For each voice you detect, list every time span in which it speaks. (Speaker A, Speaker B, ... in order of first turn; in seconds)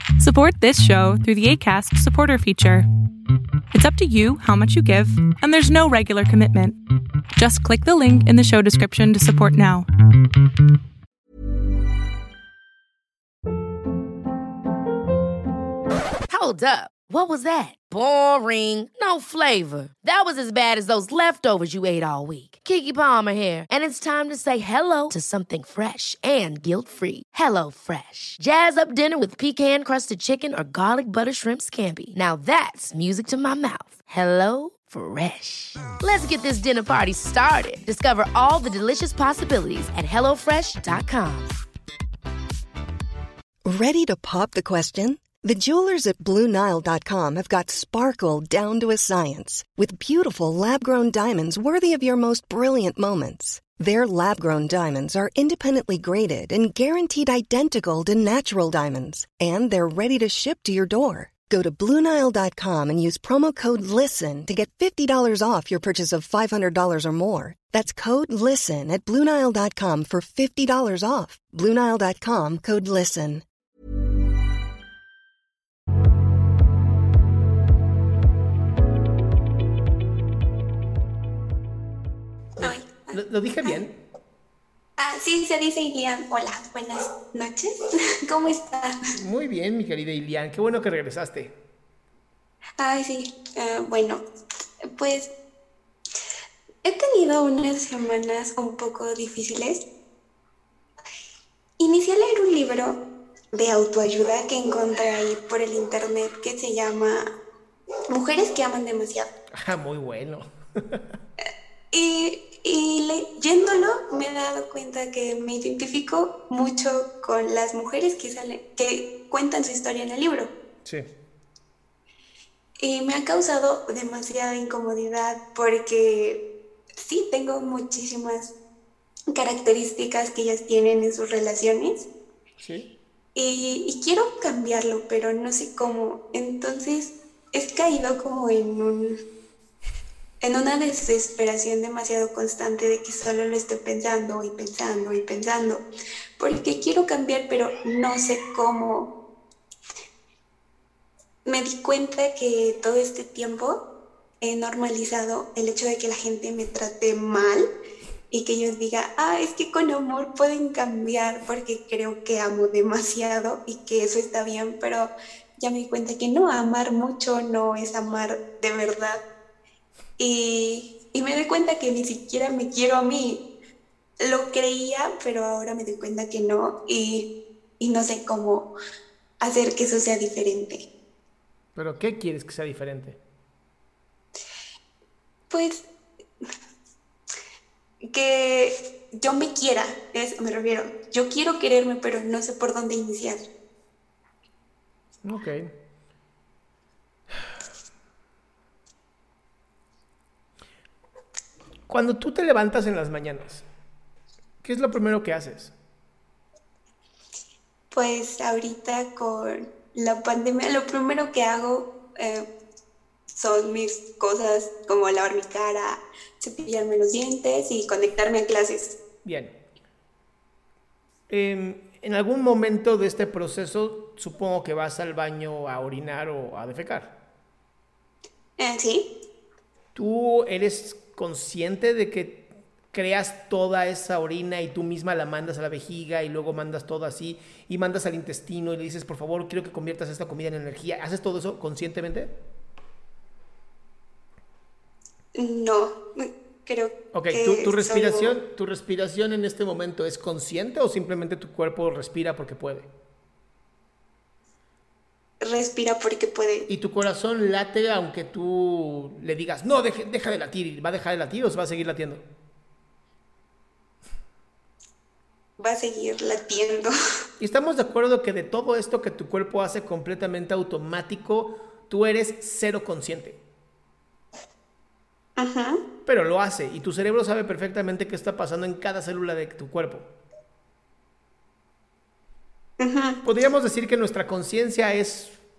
Speaker A: 0.2-2.9, 3.7-6.8, 7.4-9.9
Speaker B: 16.3-41.5
Speaker C: 43.6-73.4
Speaker D: 82.6-84.0, 89.2-91.5, 109.5-111.0, 132.6-132.9, 181.8-183.2, 195.2-195.7, 201.9-203.6, 204.6-205.7, 219.2-219.6, 221.3-227.2, 229.9-242.4, 247.1-252.9, 256.7-262.2, 267.4-273.4, 276.1-280.1, 283.2-285.4
Speaker E: 82.6-83.8, 85.0-87.7, 88.3-89.0, 92.8-94.2, 95.0-95.3, 96.8-99.8, 101.8-103.0, 103.5-107.2, 108.1-109.3, 111.9-120.5, 122.8-126.4, 127.0-128.6, 129.3-132.1, 133.3-139.2, 140.4-145.8, 146.4-149.1, 151.5-153.8, 154.4-157.7, 158.3-169.2, 170.2-173.4, 174.2-177.3, 177.8-178.7, 179.4-180.9, 185.5-185.9, 188.1-193.4, 207.9-212.5, 213.4-219.0, 228.6-229.1, 245.3-248.4, 255.4-256.7, 265.6-266.9, 275.4-275.8, 282.8-283.2